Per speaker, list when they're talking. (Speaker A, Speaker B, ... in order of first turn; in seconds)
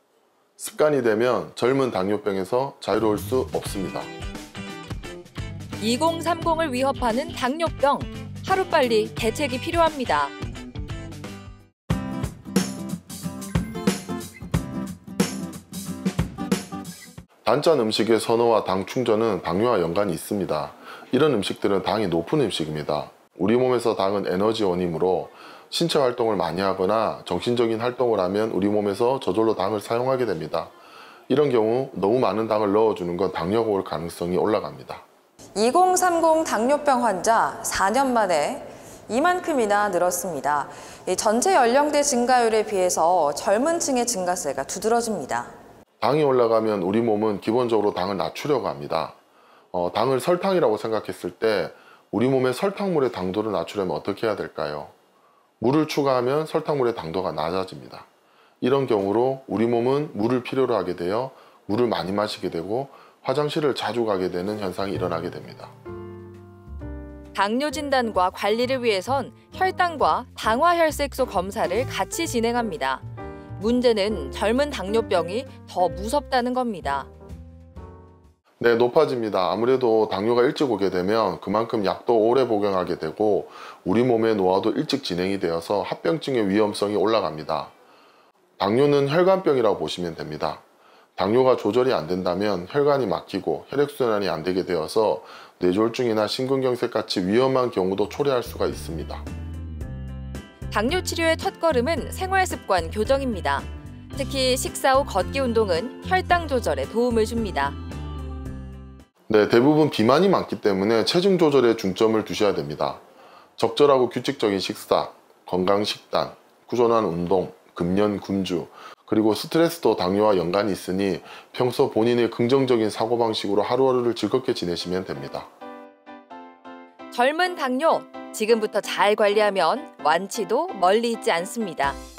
Speaker A: 0.6-4.1, 17.4-30.7, 31.3-35.0, 46.0-49.2, 49.7-54.9, 55.6-58.1, 58.6-65.7, 78.6-87.7, 88.6-90.6, 91.2-99.2, 109.3-113.0, 113.6-125.5
Speaker B: 5.8-10.3, 67.3-73.0, 73.6-77.1, 100.7-107.8, 127.1-132.0
Speaker C: 35.6-45.5